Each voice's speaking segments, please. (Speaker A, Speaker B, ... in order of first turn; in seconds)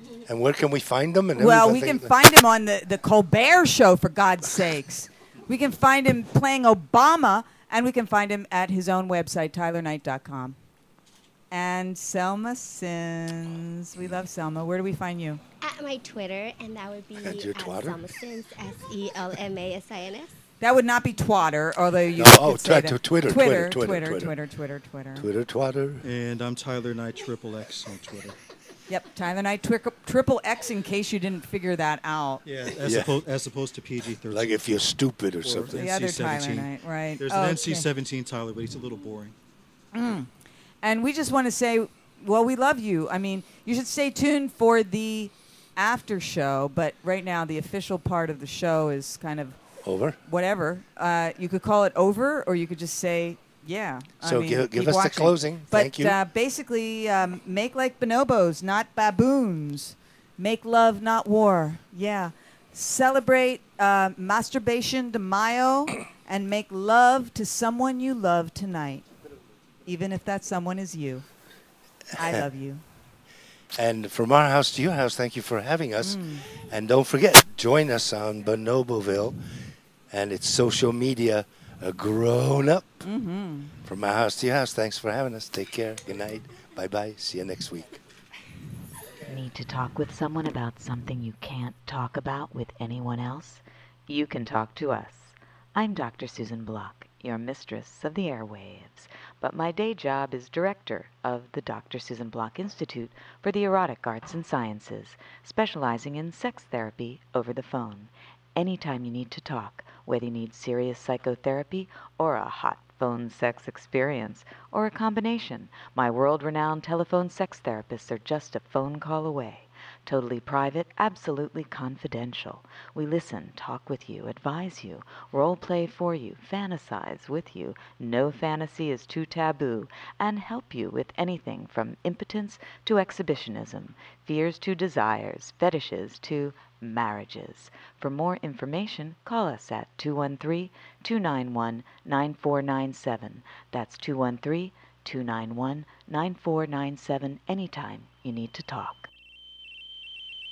Speaker A: 0.3-2.1, 17.2-18.0, 22.1-24.4, 25.2-26.1, 32.8-33.1, 34.3-35.8, 49.8-50.2, 54.2-56.2, 73.8-79.4, 80.1-83.0, 83.9-88.0
Speaker B: 1.4-10.6, 11.5-15.4, 20.6-25.3, 28.9-32.4, 35.8-37.9, 39.9-40.3, 40.8-49.6, 50.3-69.1, 69.9-71.3, 72.2-72.8, 76.0-76.5, 83.0-83.8
Speaker C: 15.6-20.4
Speaker D: 26.0-28.4, 32.4-34.8, 35.4-39.4
Speaker E: 89.3-149.1